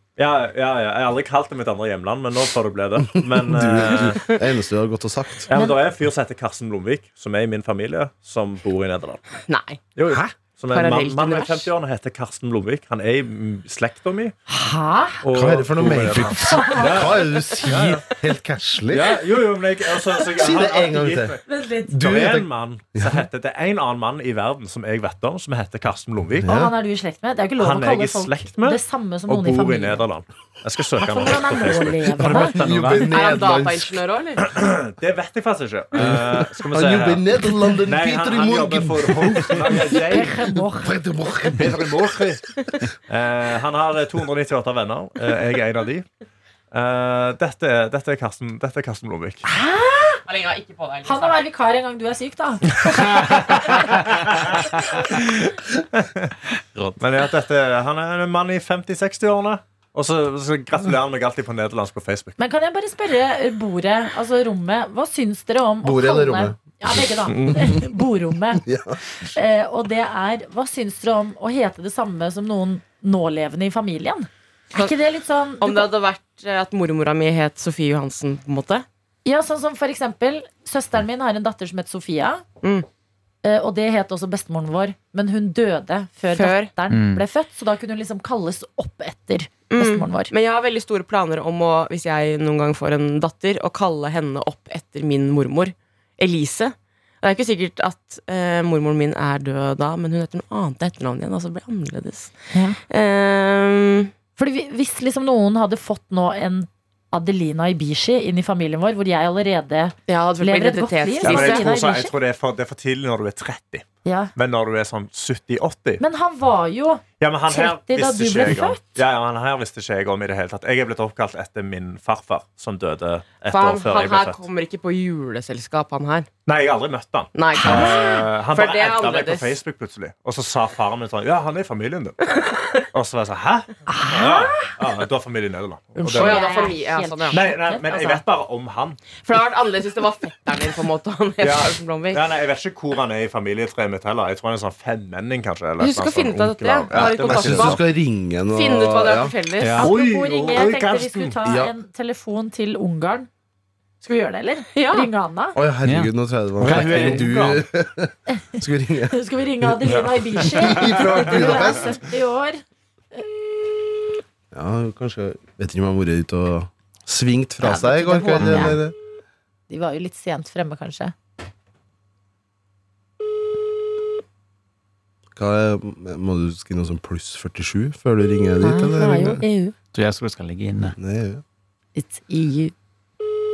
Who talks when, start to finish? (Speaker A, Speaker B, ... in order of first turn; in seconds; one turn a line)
Speaker A: 0.2-4.3
Speaker B: 3.1-5.5
Speaker A: 5.5-9.2
Speaker C: 5.5-5.8
Speaker D: 9.5-9.8
Speaker A: 9.9-14.3
Speaker D: 10.7-11.7
Speaker C: 14.5-15.2
Speaker B: 15.2-19.2
Speaker A: 15.3-18.1
Speaker E: 15.3-16.3
Speaker C: 16.4-17.0
Speaker A: 18.9-21.4
Speaker B: 20.3-21.4
Speaker C: 21.5-21.9
Speaker B: 21.9-23.2
Speaker A: 22.0-26.5
Speaker B: 26.4-26.7
Speaker C: 26.4-30.0
Speaker A: 27.6-33.1
Speaker C: 31.0-32.5
Speaker B: 32.3-34.0
Speaker E: 32.4-33.0
Speaker D: 33.1-34.5
Speaker A: 34.4-37.2
Speaker B: 36.0-42.2
Speaker A: 37.8-40.3
Speaker C: 40.1-41.0
Speaker A: 41.5-42.5
Speaker A: 43.1-46.1
Speaker A: 46.7-49.4
Speaker C: 49.5-50.2
Speaker D: 50.2-51.4
Speaker C: 51.0-53.9
Speaker A: 53.0-53.7
Speaker A: 55.1-55.4
Speaker A: 56.0-56.3
Speaker E: 56.7-57.0
Speaker A: 57.0-62.4
Speaker C: 62.4-68.6
Speaker B: 65.8-67.8
Speaker A: 67.3-67.7
Speaker B: 68.6-69.0
Speaker C: 69.2-75.9
Speaker D: 75.6-78.8
Speaker C: 79.2-82.4
Speaker C: 83.4-90.3
Speaker D: 86.3-86.7
Speaker E: 86.9-87.2
Speaker D: 89.7-102.3
Speaker C: 102.5-102.8
Speaker D: 102.9-104.1
Speaker C: 104.4-112.1
Speaker D: 110.1-111.7
Speaker A: 111.2-116.0
Speaker C: 114.0-114.3
Speaker C: 116.0-118.8
Speaker A: 117.2-124.4
Speaker D: 123.5-126.3
Speaker A: 126.5-132.2
Speaker D: 127.3-129.6
Speaker C: 127.6-128.2
Speaker D: 132.3-132.7
Speaker A: 132.9-136.4
Speaker C: 133.9-134.7
Speaker C: 135.9-138.2
Speaker D: 136.2-137.4
Speaker A: 137.3-139.0
Speaker D: 139.2-142.2
Speaker A: 141.4-147.8
Speaker D: 145.8-147.8
Speaker B: 146.9-149.3
Speaker D: 148.5-149.9
Speaker E: 149.6-149.9
Speaker A: 149.6-151.3
Speaker C: 149.8-153.3
Speaker B: 151.4-151.7
Speaker C: 154.0-155.6
Speaker D: 154.7-155.1
Speaker B: 155.5-162.0
Speaker E: 155.8-157.3
Speaker A: 156.6-157.6
Speaker C: 158.3-158.6
Speaker C: 159.1-162.6
Speaker A: 160.6-161.7
Speaker B: 164.5-168.9
Speaker C: 167.6-168.8
Speaker C: 169.7-171.1
Speaker B: 175.3-179.4
Speaker C: 178.6-179.7
Speaker E: 179.9-180.9
Speaker B: 180.8-181.4
Speaker C: 181.9-182.7